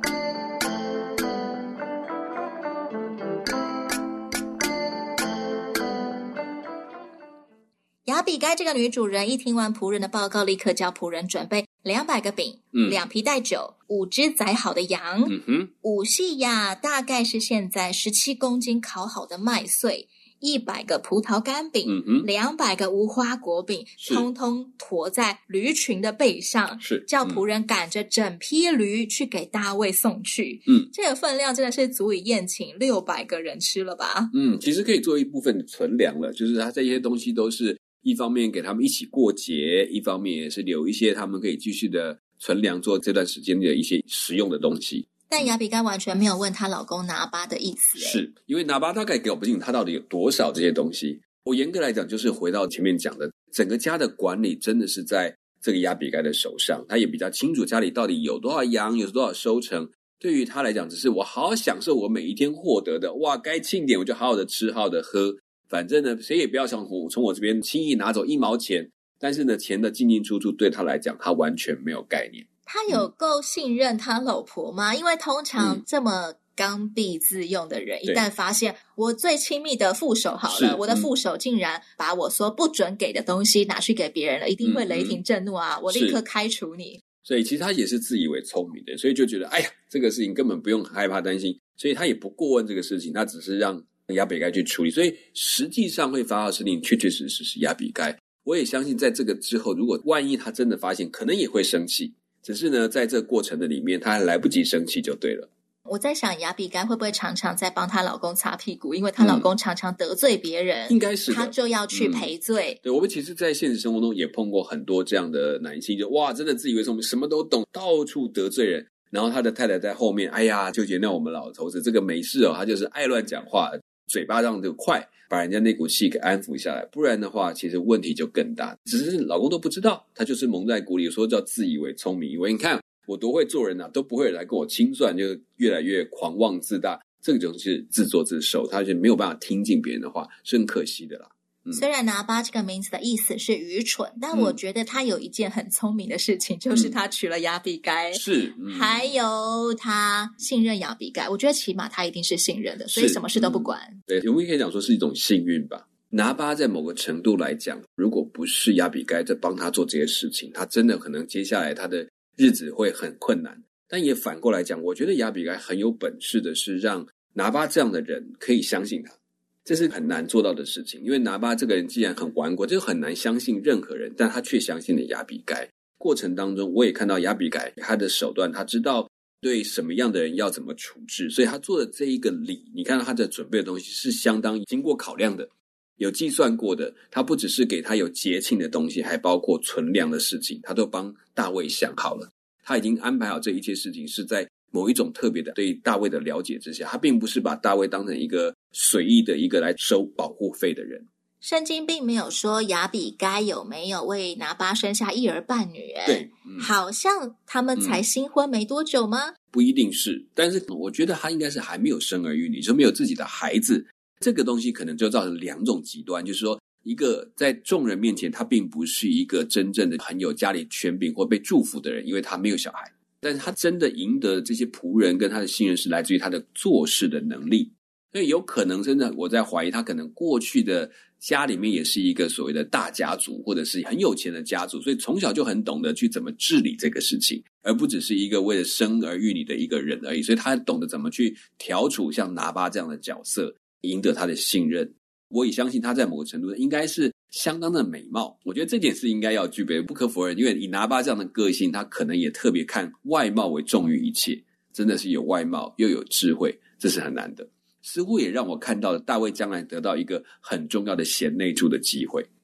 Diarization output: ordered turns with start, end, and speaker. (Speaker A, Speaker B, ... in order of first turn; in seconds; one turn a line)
Speaker A: 8.1-34.3
Speaker B: 12.7-13.0
Speaker B: 15.2-15.7
Speaker B: 21.9-22.3
Speaker B: 24.0-24.2
Speaker B: 26.8-27.4
Speaker B: 34.3-45.5
Speaker A: 45.3-48.2
Speaker B: 48.0-73.1
Speaker A: 72.7-87.0
Speaker B: 80.5-81.1
Speaker B: 84.6-85.2
Speaker B: 85.9-86.2
Speaker B: 87.2-105.5
Speaker A: 105.9-112.8
Speaker B: 109.2-109.5
Speaker B: 110.9-112.3
Speaker B: 112.8-141.8
Speaker A: 141.7-154.0
Speaker B: 144.3-144.6
Speaker B: 148.1-149.1
Speaker B: 152.9-201.1
Speaker A: 201.4-209.4
Speaker B: 206.1-206.7
Speaker B: 207.8-208.0
Speaker B: 209.5-262.3